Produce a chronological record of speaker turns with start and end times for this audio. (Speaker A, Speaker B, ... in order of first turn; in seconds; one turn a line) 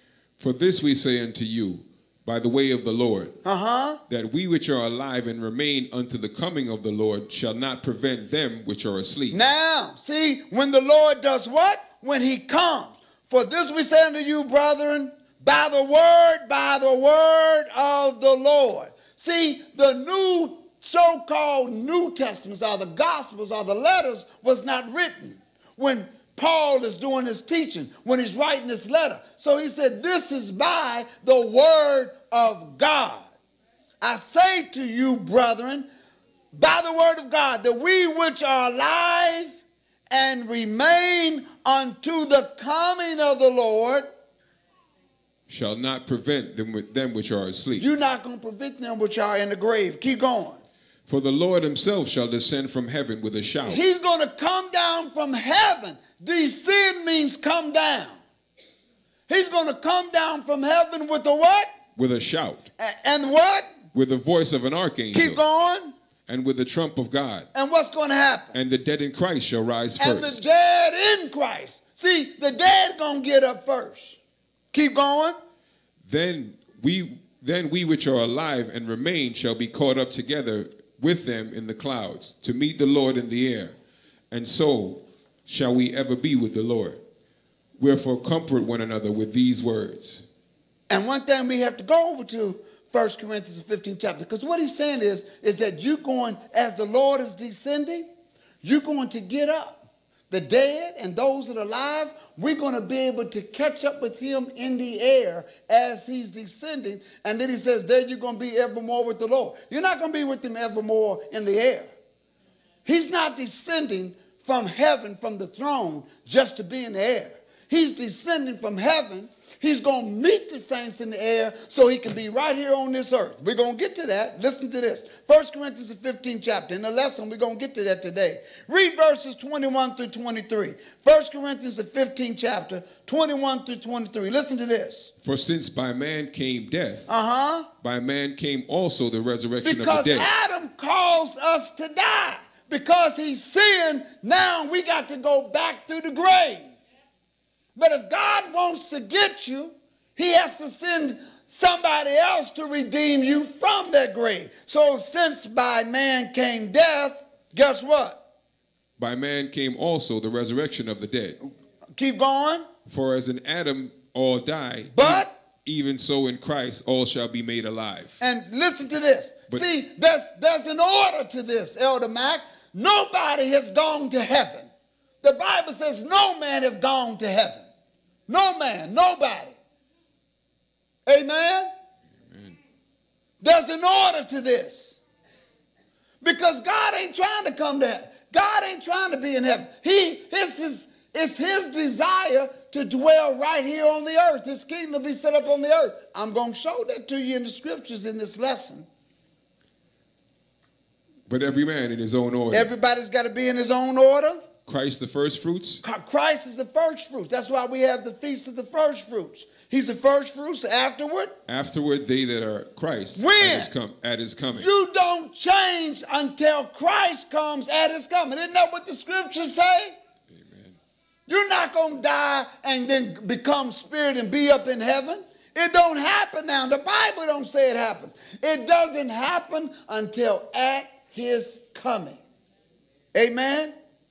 Speaker A: 0.4-3.4
Speaker B: 3.4-4.0
Speaker A: 4.1-9.4
Speaker B: 9.3-33.3
Speaker B: 34.0-35.9
Speaker B: 36.5-39.6
Speaker B: 40.1-44.1
Speaker A: 45.5-47.9
Speaker B: 47.8-50.6
Speaker A: 51.1-53.8
Speaker B: 53.6-58.2
Speaker B: 59.3-61.7
Speaker A: 62.0-62.6
Speaker B: 62.8-63.7
Speaker A: 63.9-65.4
Speaker B: 65.1-65.9
Speaker A: 66.3-67.5
Speaker B: 67.5-68.5
Speaker A: 68.5-70.4
Speaker B: 70.0-74.2
Speaker B: 74.7-75.3
Speaker A: 76.0-83.7
Speaker A: 84.3-87.0
Speaker A: 87.8-90.2
Speaker B: 90.9-98.1
Speaker B: 98.6-111.9
Speaker B: 112.8-135.1
Speaker A: 135.2-137.1
Speaker B: 137.1-137.7
Speaker A: 137.8-140.3
Speaker B: 139.6-146.8
Speaker B: 147.8-158.2
Speaker A: 159.0-161.4
Speaker B: 161.4-162.7
Speaker A: 162.8-168.2
Speaker B: 164.9-165.3
Speaker B: 168.2-174.7
Speaker B: 175.2-177.7
Speaker B: 178.3-179.6
Speaker B: 181.1-181.7
Speaker A: 182.3-182.5
Speaker B: 183.4-185.0
Speaker B: 186.2-198.9
Speaker A: 201.3-202.7
Speaker B: 202.5-204.4
Speaker A: 204.7-205.8
Speaker B: 205.8-211.4
Speaker A: 211.5-214.7
Speaker B: 213.2-213.7
Speaker B: 214.6-219.9
Speaker A: 220.3-220.8
Speaker B: 221.3-232.2
Speaker B: 233.1-233.7